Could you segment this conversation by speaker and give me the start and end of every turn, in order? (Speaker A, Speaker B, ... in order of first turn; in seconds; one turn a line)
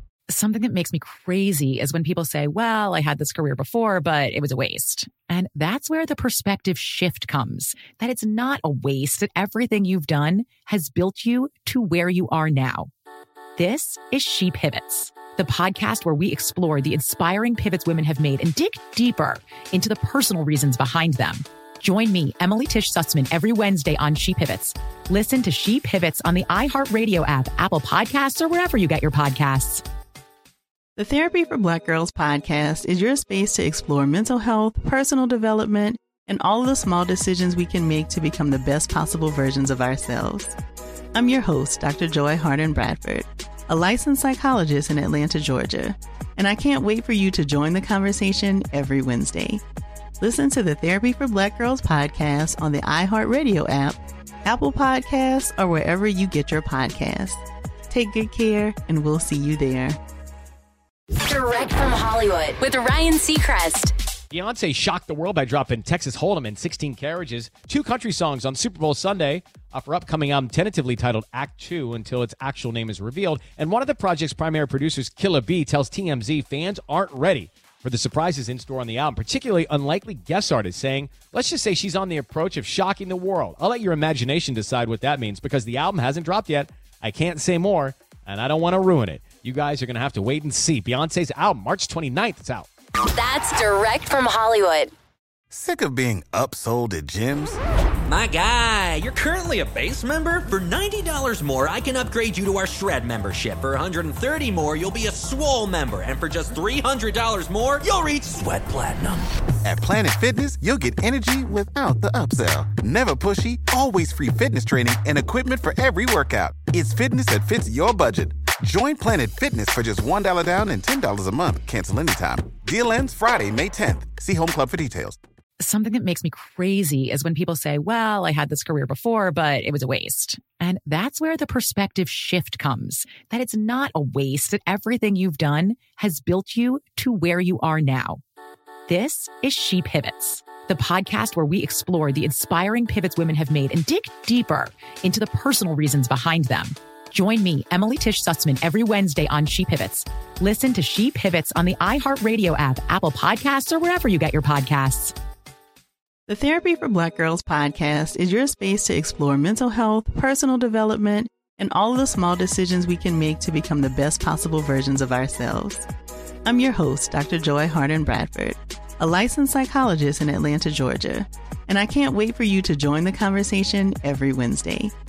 Speaker A: 0.3-12.9
Speaker A: 13.6-29.8
Speaker B: 30.9-40.5
Speaker B: 41.1-49.6
Speaker B: 50.2-60.0
Speaker C: 61.2-63.9
Speaker D: 64.3-92.7
Speaker C: 93.0-94.9
Speaker E: 95.5-97.6
Speaker F: 98.1-109.2
Speaker E: 109.6-125.2
Speaker A: 125.6-138.2
Speaker A: 138.9-155.1
Speaker B: 156.3-165.8
Speaker B: 166.4-174.9